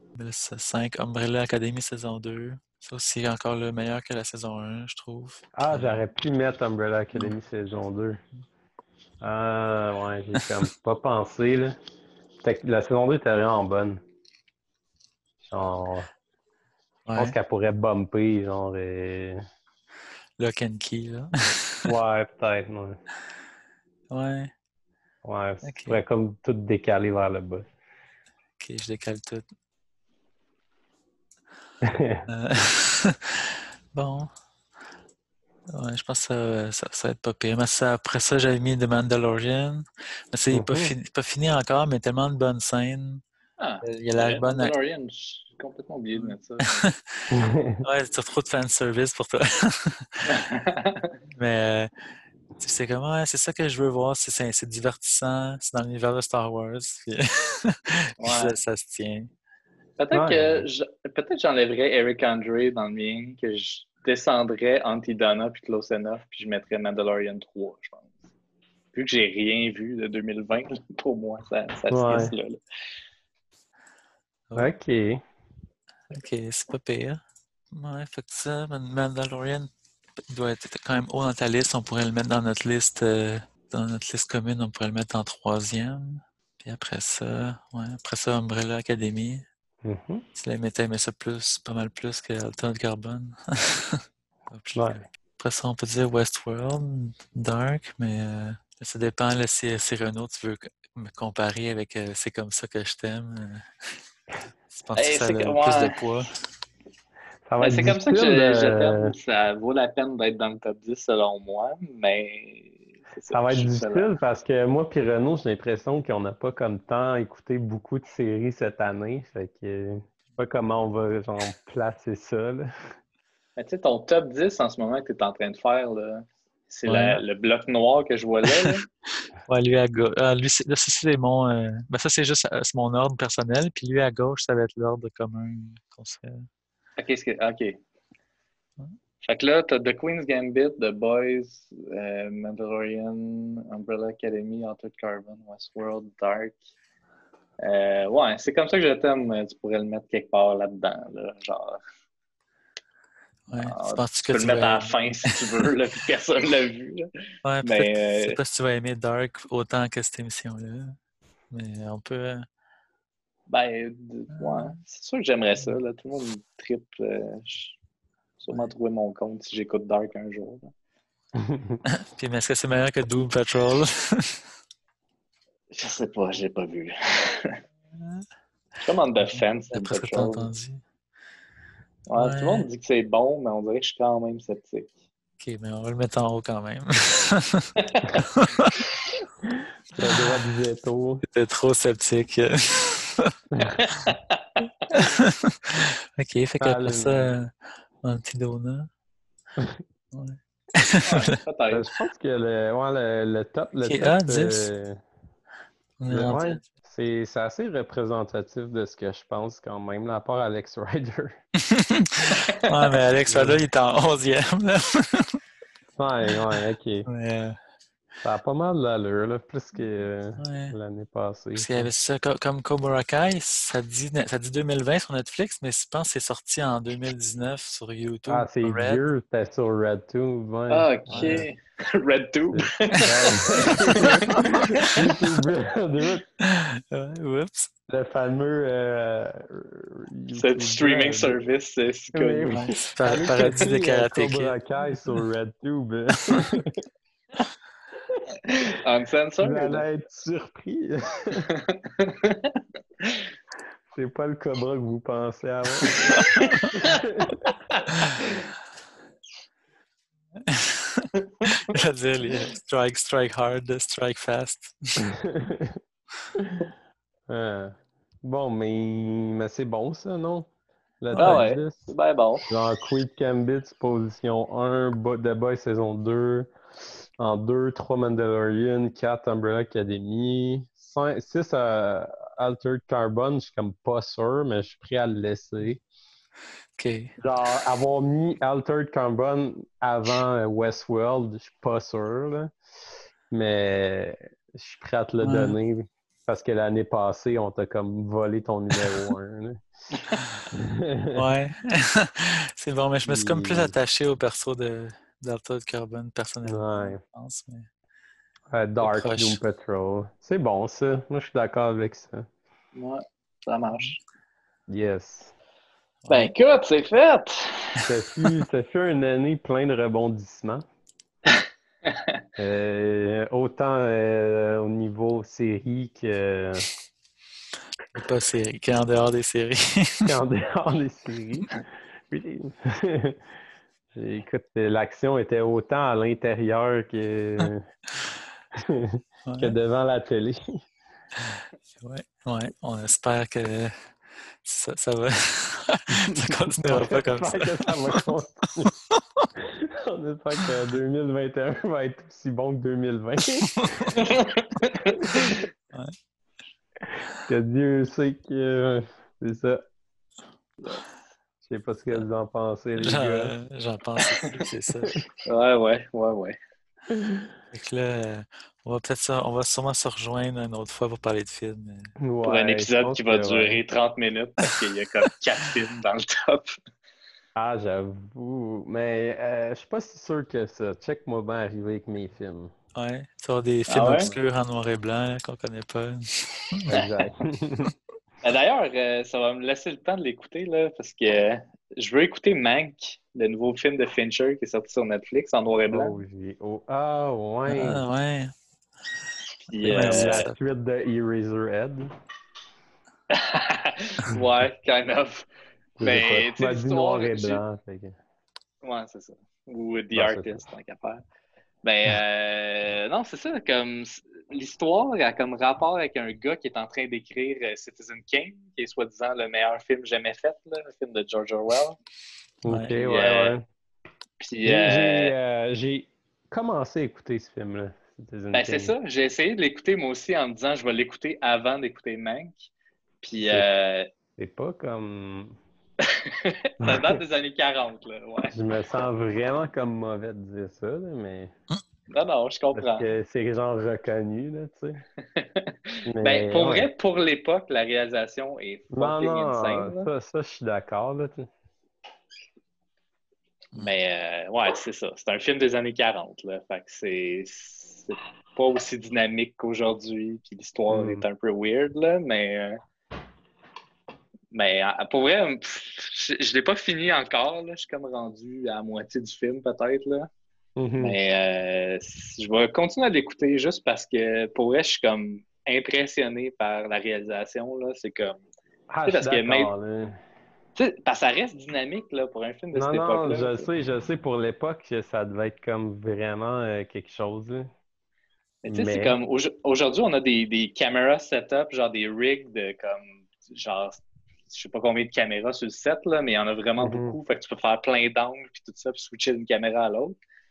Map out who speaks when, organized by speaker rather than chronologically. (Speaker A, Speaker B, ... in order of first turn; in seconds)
Speaker A: 0.1-6.0, 17.1-17.4, 20.4-21.9, 24.1-24.5, 25.6-26.0, 28.6-29.4, 32.3-33.1, 33.9-34.3, 35.7-43.2, 43.8-44.7, 46.1-46.9, 47.8-50.2, 51.3-51.9, 52.6-59.3, 76.1-77.2, 77.7-79.7, 80.3-89.4, 90.3-103.6, 104.7-106.3, 126.8-127.2, 129.4-136.4, 153.5-155.7, 157.4-160.9, 161.5-162.4, 164.3-164.8, 171.9-174.3, 178.0-178.2, 179.2-180.8, 182.1-182.7, 185.4-188.7, 190.0-190.4, 191.2-193.3, 194.9-197.5, 198.0-198.9, 200.1-201.3, 203.8-204.7, 206.0-206.6, 211.7-215.4, 217.1-217.6, 220.4-220.7, 221.6-229.0, 231.1-231.5, 233.0-234.5, 236.4-237.7, 242.5-244.6, 260.5-265.1, 271.1-271.5, 286.8-287.1, 295.2-295.6, 300.2-300.4, 301.1-307.7, 308.8-309.4, 316.0-316.3, 327.9-330.1, 339.2-339.5, 341.3-343.7, 344.4-348.1, 349.0-349.2, 353.6-354.0, 355.1-355.9, 362.8-365.0, 367.5-371.9, 382.7-386.7, 397.5-398.3, 399.5-400.4, 422.5-422.7
Speaker B: 5.5-8.2, 9.2-11.8, 12.4-14.0, 15.5-16.1, 17.1-19.4, 21.9-23.0, 25.2-27.7, 31.8-32.2, 40.5-40.9, 47.3-47.8, 60.1-60.7, 71.9-72.3, 74.5-75.2, 89.8-90.2, 94.7-95.0, 107.5-109.1, 113.3-122.7, 171.4-171.8, 189.4-191.2, 196.6-197.3, 201.7-205.0, 206.1-211.3, 213.3-213.6, 215.9-217.1, 218.2-221.9, 228.3-231.5, 232.5-236.2, 237.9-241.3, 242.1-246.8, 249.4-251.4, 253.9-257.4, 265.2-265.7, 266.4-266.6, 267.3-270.5, 271.0-271.9, 272.5-276.5, 277.2-285.8, 287.2-292.5, 293.3-299.6, 300.5-301.1, 303.0-303.7, 306.4-307.0, 308.5-312.2, 314.7-315.3, 317.8-320.6, 322.4-326.7, 330.1-333.2, 333.9-337.6, 338.6-340.6, 346.3-348.7, 349.4-353.9, 357.2-359.6, 361.4-363.3, 366.9-367.3, 372.0-373.6, 377.4-382.5, 386.7-387.7, 395.7-397.8, 399.7-401.9, 405.8-407.9, 409.9-410.4, 422.4-423.4, 424.4-428.7, 433.2-433.5, 434.2-435.4, 436.6-437.0, 438.3-441.3, 442.5-444.8, 445.9-446.7, 448.7-451.3, 460.7-461.0, 470.6-471.0, 478.7-480.0, 482.5-487.5, 488.5-489.0, 496.6-497.0
Speaker C: 43.6-46.9, 50.3-51.1, 58.2-58.6, 60.0-68.1, 68.9-72.6, 105.0-106.1, 107.6-114.1, 123.5-128.8, 137.0-137.8, 139.2-146.6, 147.6-151.8, 153.5-157.1, 157.6-158.4, 163.5-167.8, 168.4-170.7, 175.7-177.6, 178.8-180.5, 182.1-184.9, 193.8-194.4, 201.0-201.9, 230.7-235.0, 240.3-243.2, 248.7-249.8, 251.7-253.1, 256.1-256.7, 271.1-272.4, 312.7-314.0, 316.1-317.8, 353.9-355.3, 360.6-360.9, 365.2-366.4, 372.2-376.6, 383.7-384.1, 388.2-396.0, 399.5-400.3, 403.1-405.3, 405.8-407.4, 408.6-411.0, 411.6-421.8, 422.8-423.4, 424.2-425.1, 428.3-432.5, 433.0-433.9, 436.2-438.3, 441.9-442.8, 445.1-449.9, 453.6-462.6, 464.3-470.1, 470.8-478.2, 478.8-479.5, 480.5-483.5, 488.4-500.0